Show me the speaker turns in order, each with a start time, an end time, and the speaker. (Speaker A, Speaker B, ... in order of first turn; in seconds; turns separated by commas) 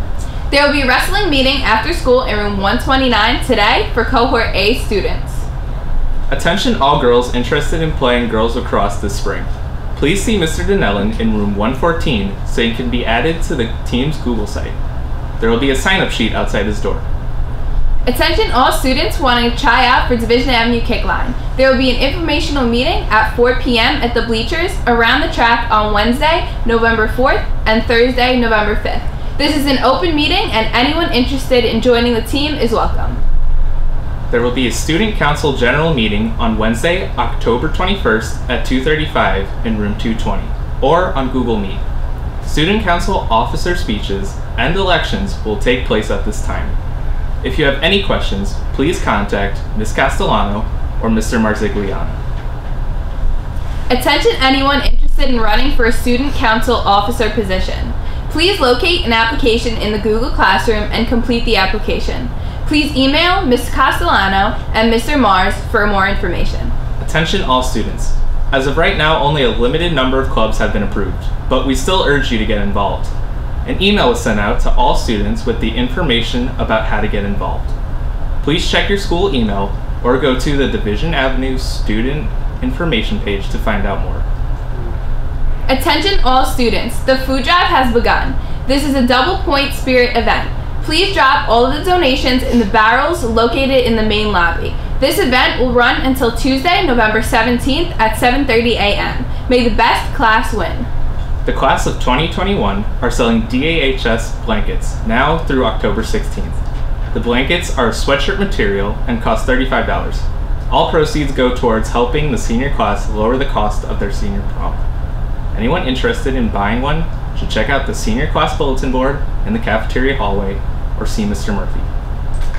Speaker A: 0.5-5.5, Speaker B: 6.3-14.8, Speaker B: 15.4-17.0, Speaker A: 18.1-33.2, Speaker B: 34.3-41.8, Speaker B: 42.4-46.7, Speaker B: 47.4-52.2, Speaker A: 53.9-66.7, Speaker B: 67.0-73.1, Speaker B: 73.6-77.7, Speaker B: 78.4-84.2, Speaker A: 85.7-100.9, Speaker B: 101.4-106.6, Speaker B: 107.1-114.8, Speaker B: 115.5-121.9